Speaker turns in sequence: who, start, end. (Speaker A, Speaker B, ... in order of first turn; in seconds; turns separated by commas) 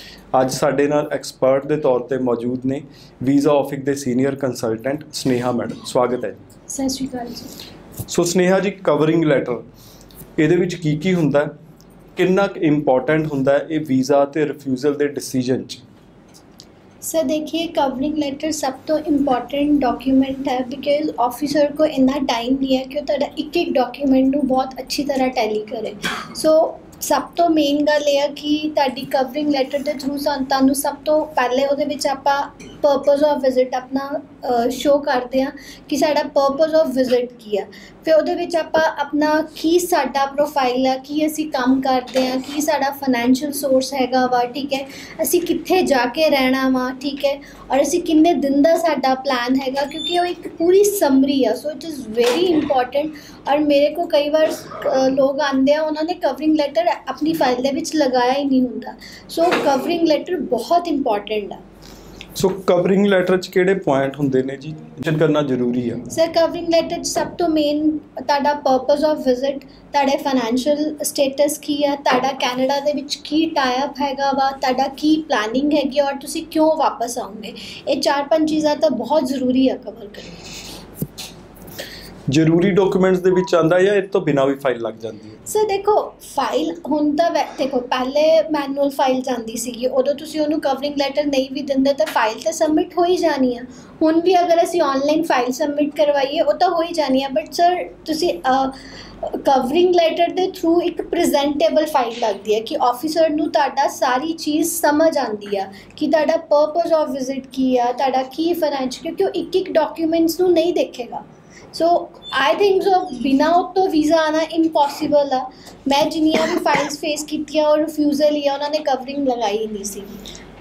Speaker A: 0.3-6.4, Speaker B: 6.7-7.5, Speaker A: 8.1-9.6, Speaker A: 10.4-11.5, Speaker A: 12.2-15.8, Speaker B: 17.0-61.6, Speaker A: 62.3-66.0, Speaker B: 66.1-80.5, Speaker A: 82.3-85.4, Speaker B: 85.5-120.2